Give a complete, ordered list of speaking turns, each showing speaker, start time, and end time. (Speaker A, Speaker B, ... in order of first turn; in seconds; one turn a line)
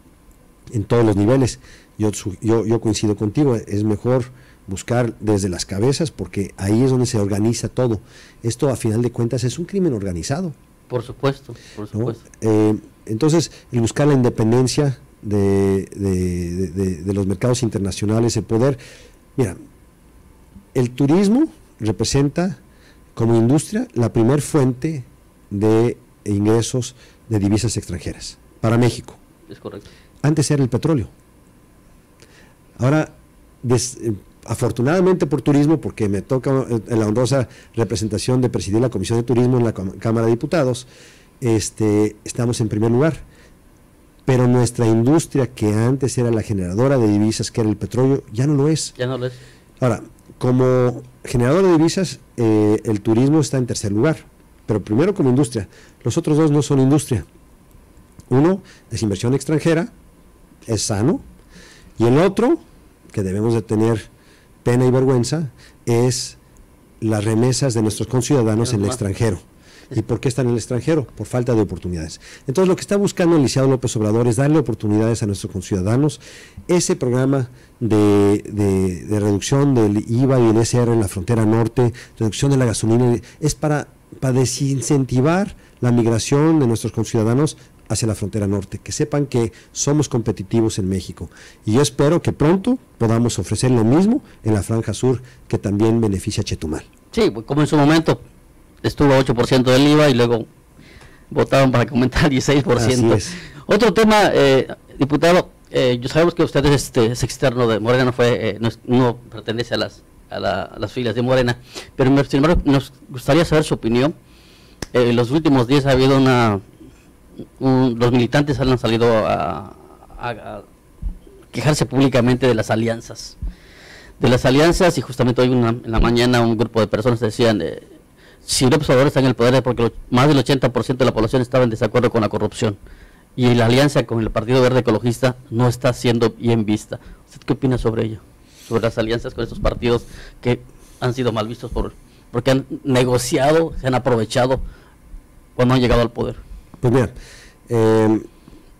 Speaker A: 0.7-10.6
Speaker B: 10.9-12.2
Speaker A: 11.9-18.8
Speaker A: 20.8-22.6
Speaker A: 23.1-29.2
Speaker B: 29.5-29.9
Speaker A: 30.2-31.1
Speaker A: 32.8-40.9
Speaker A: 41.4-43.2
Speaker A: 44.3-49.0
Speaker B: 49.0-49.4
Speaker A: 49.8-57.3
Speaker A: 58.3-59.9
Speaker A: 60.7-61.2
Speaker A: 62.0-64.1
Speaker A: 64.6-66.4
Speaker A: 67.0-96.9
Speaker B: 68.7-69.0
Speaker B: 97.1-98.2
Speaker B: 98.8-100.5
Speaker B: 101.3-114.2
Speaker A: 102.8-103.4
Speaker B: 114.9-116.6
Speaker B: 117.6-120.7
Speaker B: 121.5-123.4
Speaker B: 124.2-127.9
Speaker B: 128.4-132.8
Speaker B: 133.4-144.6
Speaker B: 145.6-146.4
Speaker A: 146.8-147.1
Speaker A: 147.7-148.3